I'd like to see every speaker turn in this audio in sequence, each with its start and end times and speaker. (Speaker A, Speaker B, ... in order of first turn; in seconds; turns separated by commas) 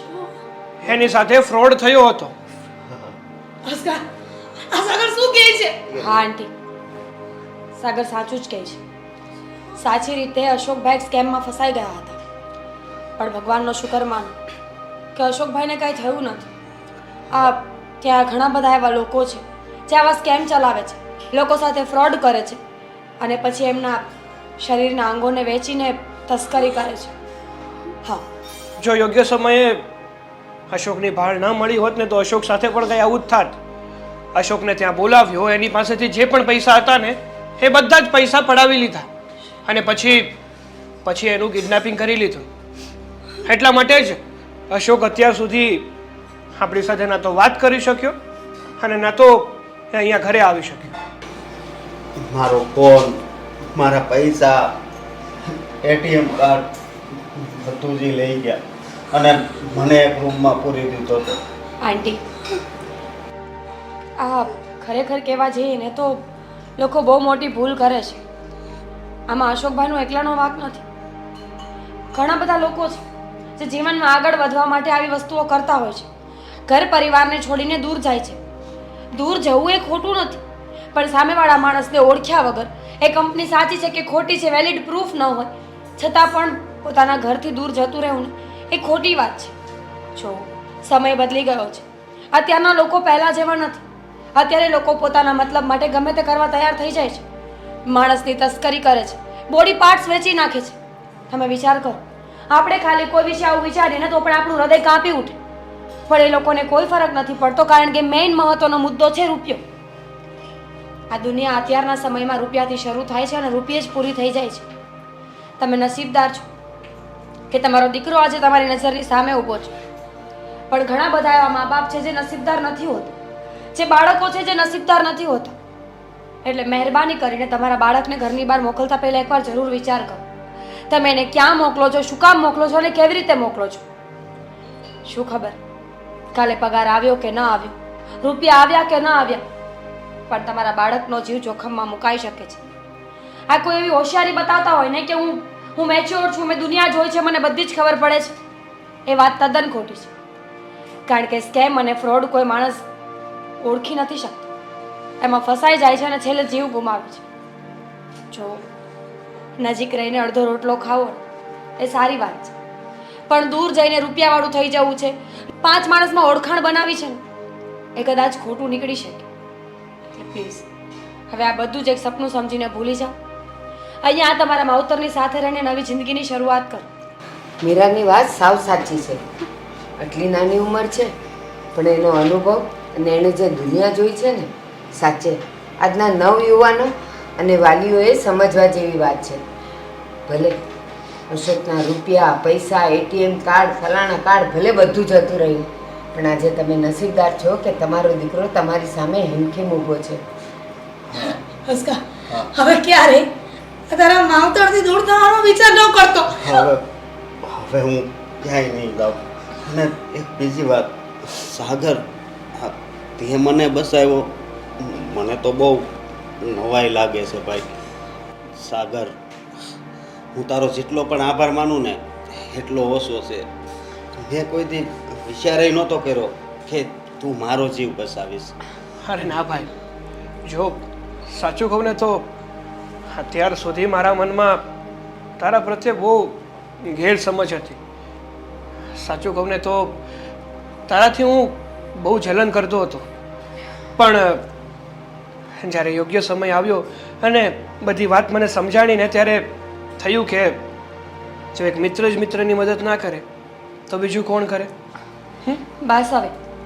Speaker A: 0.8-2.3, Speaker B: 2.9-3.1, Speaker C: 3.6-4.0, Speaker C: 4.7-5.8, Speaker B: 5.9-6.2, Speaker D: 6.0-6.5, Speaker D: 7.8-8.8, Speaker D: 9.8-12.2, Speaker D: 13.2-14.3, Speaker D: 15.2-16.4, Speaker D: 17.3-22.6, Speaker D: 23.2-24.1, Speaker D: 24.6-27.1, Speaker A: 28.8-29.8, Speaker A: 30.7-33.6, Speaker A: 34.3-39.1, Speaker A: 39.6-40.3, Speaker A: 41.0-42.5, Speaker A: 43.4-45.9, Speaker A: 46.6-48.1, Speaker A: 48.8-51.0, Speaker B: 52.3-53.2, Speaker B: 53.7-54.6, Speaker B: 55.8-56.6, Speaker B: 57.3-58.6, Speaker B: 59.1-61.4, Speaker D: 61.8-62.2, Speaker D: 64.2-66.2, Speaker D: 66.8-68.2, Speaker D: 69.3-70.8, Speaker D: 72.1-73.0, Speaker D: 73.6-76.1, Speaker D: 76.7-78.4, Speaker D: 79.1-80.4, Speaker D: 80.9-89.5, Speaker D: 90.2-93.8, Speaker D: 94.3-97.2, Speaker D: 97.9-100.8, Speaker D: 101.3-105.4, Speaker D: 106.1-109.6, Speaker D: 111.1-114.7, Speaker D: 115.6-116.5, Speaker D: 117.5-119.7, Speaker D: 120.7-123.1, Speaker D: 123.7-125.5, Speaker D: 126.4-130.2, Speaker D: 130.9-133.8, Speaker D: 135.1-135.6, Speaker D: 136.3-139.4, Speaker D: 140.3-142.6, Speaker D: 143.5-148.3, Speaker D: 149.1-150.1, Speaker D: 151.1-152.8, Speaker D: 153.6-154.5, Speaker D: 155.2-157.2, Speaker D: 158.3-158.6, Speaker D: 159.6-161.2, Speaker D: 161.8-162.5, Speaker D: 163.3-167.2, Speaker D: 167.9-169.2, Speaker D: 170.1-170.7, Speaker D: 171.3-173.1, Speaker D: 174.0-176.8, Speaker E: 177.6-179.2, Speaker E: 180.0-181.1, Speaker E: 181.7-189.4, Speaker E: 190.3-190.6, Speaker E: 191.3-200.2, Speaker C: 201.1-203.3, Speaker C: 203.9-206.7, Speaker B: 206.3-206.9, Speaker B: 207.4-212.0, Speaker B: 212.5-215.9, Speaker B: 216.4-217.7, Speaker B: 218.6-219.1, Speaker B: 220.3-223.5, Speaker B: 224.2-228.5, Speaker A: 229.0-229.7, Speaker A: 230.4-232.3, Speaker A: 233.1-234.6, Speaker A: 235.4-237.8, Speaker A: 239.0-240.0, Speaker A: 240.9-243.1, Speaker A: 244.0-244.4, Speaker A: 245.6-249.5, Speaker A: 250.0-250.6, Speaker A: 251.5-253.2, Speaker A: 253.9-254.7, Speaker D: 255.8-256.3